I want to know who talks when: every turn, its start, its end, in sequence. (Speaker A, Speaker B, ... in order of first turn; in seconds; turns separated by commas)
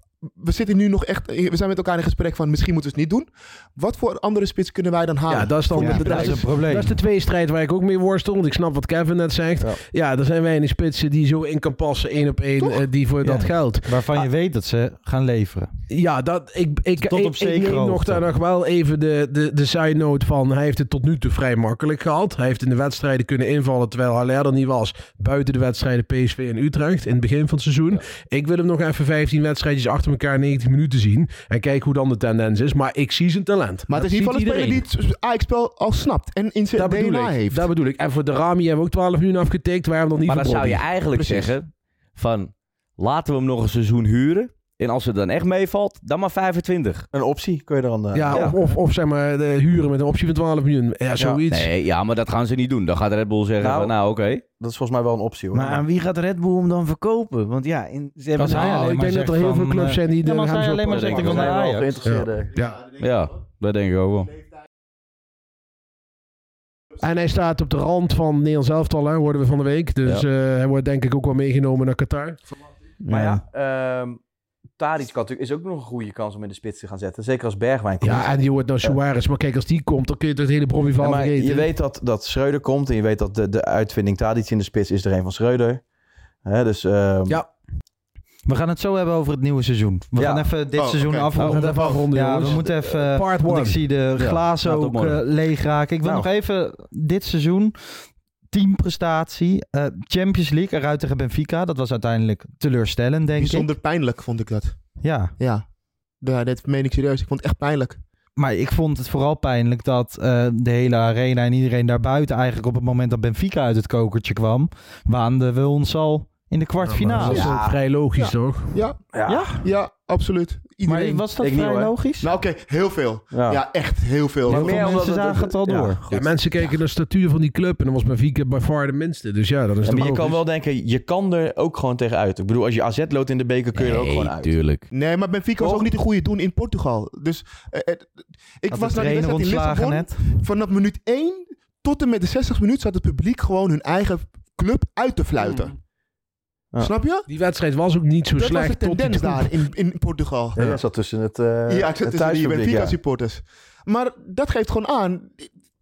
Speaker A: 0.2-6.5, Speaker B: 5.3-14.3, Speaker C: 5.8-7.0, Speaker C: 13.3-15.7, Speaker B: 15.9-34.8, Speaker C: 17.0-18.2, Speaker A: 33.9-37.7, Speaker B: 36.8-40.9, Speaker D: 40.3-47.1, Speaker A: 41.1-41.5, Speaker E: 47.1-48.6, Speaker B: 48.1-51.7, Speaker E: 51.1-51.4, Speaker D: 51.5-54.4, Speaker E: 53.6-55.8, Speaker F: 55.5-58.9, Speaker B: 58.4-61.4, Speaker C: 58.4-62.0, Speaker D: 60.9-61.5, Speaker E: 61.0-62.5, Speaker B: 62.0-62.9, Speaker D: 63.0-64.3, Speaker B: 67.0-72.4, Speaker F: 73.1-73.4, Speaker E: 73.1-74.2, Speaker E: 74.8-78.3, Speaker B: 78.0-81.7, Speaker E: 81.0-85.8, Speaker E: 86.4-87.4, Speaker C: 88.5-98.0, Speaker E: 90.2-90.5, Speaker A: 90.8-92.0, Speaker B: 91.4-94.0, Speaker D: 94.2-95.2, Speaker C: 98.5-103.7, Speaker A: 103.3-105.7, Speaker C: 105.0-105.3, Speaker A: 106.2-108.0, Speaker C: 108.4-117.6, Speaker B: 116.8-118.8, Speaker E: 117.2-117.8, Speaker A: 117.2-117.5, Speaker A: 118.2-121.3, Speaker E: 119.1-119.6, Speaker C: 119.3-119.6, Speaker C: 120.9-122.3, Speaker E: 121.4-121.9, Speaker A: 122.2-125.0, Speaker E: 123.3-123.6, Speaker E: 124.5-126.3, Speaker C: 124.5-126.0, Speaker B: 126.1-130.4, Speaker E: 129.8-134.6, Speaker D: 133.7-134.9, Speaker A: 134.9-145.7, Speaker E: 135.6-135.9, Speaker C: 138.7-140.3, Speaker A: 146.8-147.3, Speaker B: 147.3-149.5, Speaker A: 148.4-150.8, Speaker E: 150.6-153.0, Speaker A: 151.7-155.5